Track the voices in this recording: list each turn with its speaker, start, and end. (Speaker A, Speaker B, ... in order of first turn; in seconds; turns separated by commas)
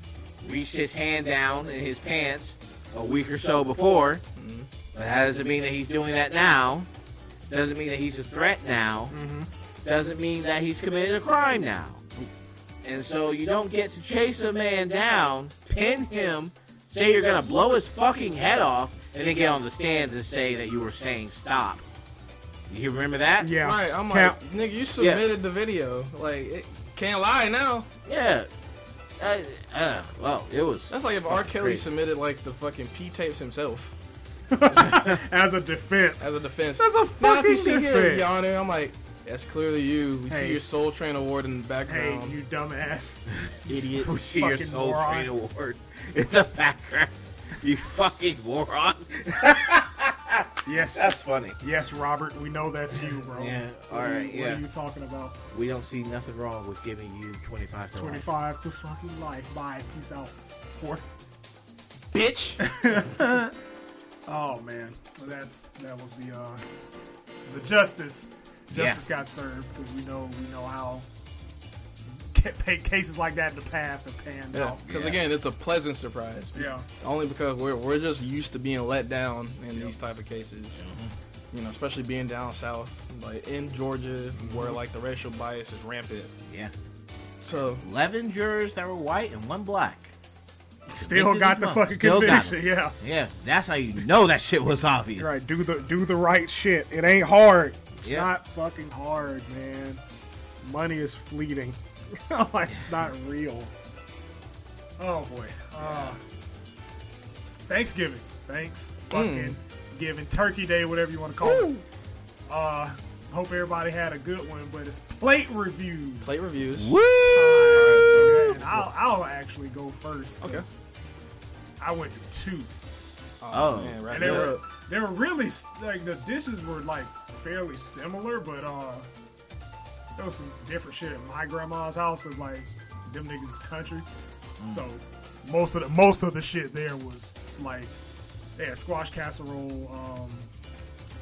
Speaker A: 0.4-4.2, Speaker B: 4.3-4.7, Speaker A: 4.9-6.9, Speaker A: 7.5-9.1, Speaker C: 9.1-9.5, Speaker A: 9.8-12.0, Speaker A: 12.8-21.8, Speaker A: 22.7-23.5, Speaker C: 23.4-24.4, Speaker B: 23.6-27.9, Speaker A: 28.1-28.5, Speaker A: 29.2-31.8, Speaker B: 30.9-33.9, Speaker C: 34.5-36.3, Speaker B: 36.2-42.4, Speaker C: 36.8-38.3, Speaker C: 40.3-40.6, Speaker C: 41.9-43.2, Speaker B: 43.6-44.1, Speaker A: 43.9-51.6, Speaker C: 44.3-45.3, Speaker C: 50.6-55.4, Speaker A: 53.3-54.6, Speaker A: 55.5-58.3, Speaker C: 57.9-61.0, Speaker B: 62.1-62.6, Speaker C: 62.6-63.5, Speaker C: 64.3-66.6, Speaker C: 67.5-71.0, Speaker A: 68.7-69.0, Speaker C: 72.3-74.8, Speaker B: 74.5-80.8, Speaker A: 74.8-75.2, Speaker C: 76.5-76.8, Speaker A: 80.8-81.1, Speaker B: 81.5-86.3, Speaker C: 84.3-84.8, Speaker B: 87.4-87.8, Speaker A: 87.5-90.1, Speaker C: 90.9-92.9, Speaker A: 90.9-95.4, Speaker C: 95.2-100.0, Speaker A: 98.0-98.3, Speaker C: 100.6-103.7, Speaker C: 105.0-106.2, Speaker A: 105.8-106.2, Speaker C: 107.7-111.7, Speaker B: 109.1-109.6, Speaker A: 111.4-111.7, Speaker C: 112.5-116.3, Speaker B: 116.2-117.0, Speaker A: 116.7-118.6, Speaker C: 117.2-120.8, Speaker B: 117.7-118.8, Speaker C: 121.8-122.7, Speaker B: 123.4-124.6, Speaker A: 123.5-124.5, Speaker C: 124.1-129.1, Speaker C: 130.2-134.1, Speaker A: 134.6-134.8, Speaker C: 134.7-137.9, Speaker C: 138.6-140.5